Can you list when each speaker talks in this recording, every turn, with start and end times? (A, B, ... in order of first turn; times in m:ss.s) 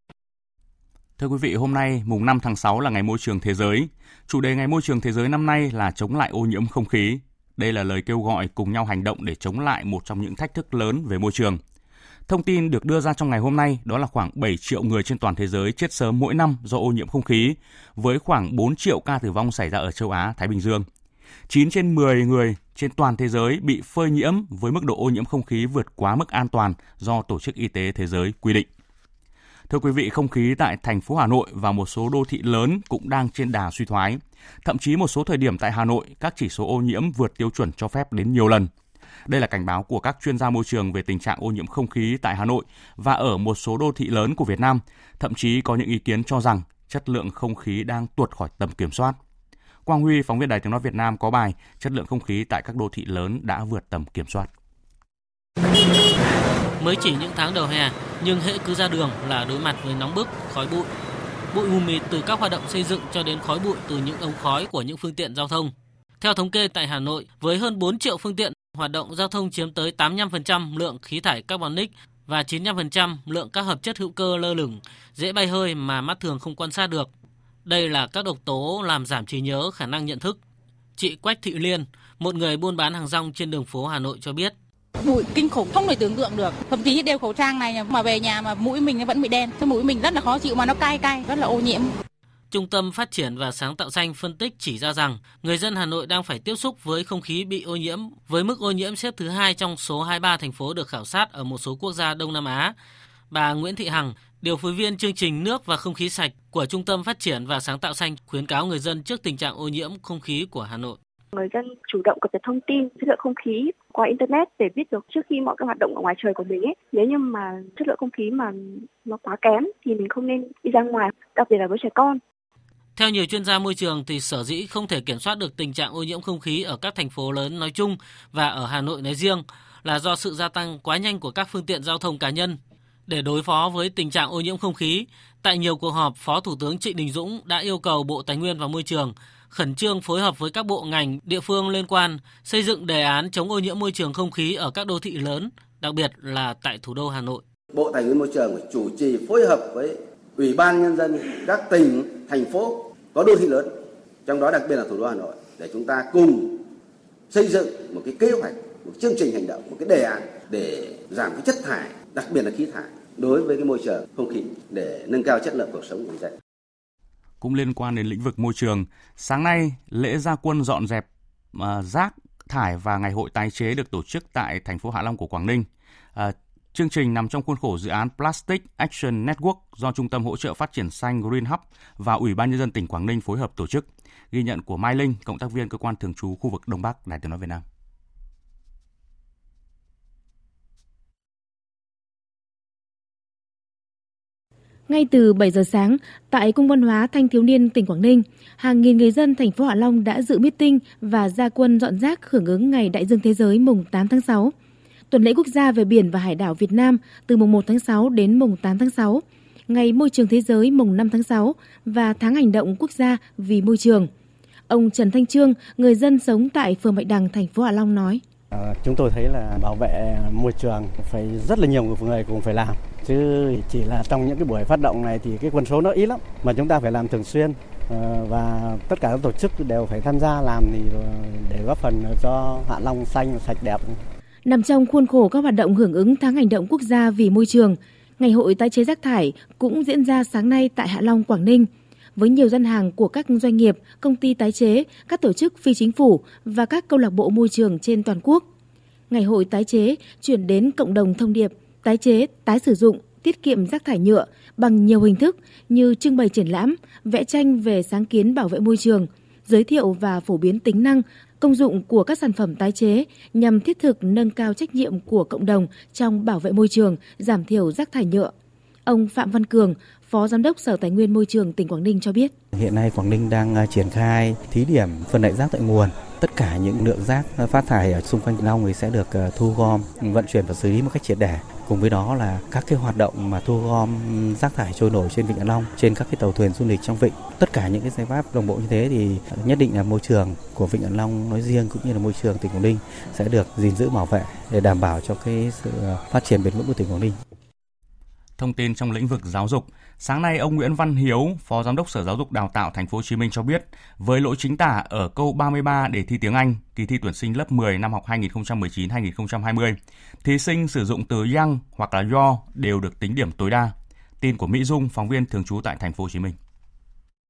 0:01.2-0:11.6 A
0:12.3-0:20.8 A
0:21.5-0:28.7 A
0:29.7-0:38.7 A
0:39.3-0:49.2 A
0:49.8-0:54.5 A
0:56.8-1:00.9 B
1:01.5-1:17.1 B
1:17.6-1:20.4 B
1:21.0-1:24.5 B
1:25.0-1:31.9 C
1:32.5-1:42.7 B
1:43.3-1:51.0 B
1:51.4-2:02.2 D
2:03.0-2:27.4 B
2:27.7-2:36.6 E
2:37.3-2:46.3 E
2:47.4-3:07.6 A
3:14.9-3:24.5 F
3:25.1-3:34.1 F
3:34.7-3:38.2 F
3:38.5-3:54.0 G
3:54.4-4:08.4 F
4:09.1-4:28.3 F
4:28.8-4:32.3 F
4:32.5-4:57.2 H
4:58.4-5:16.4 A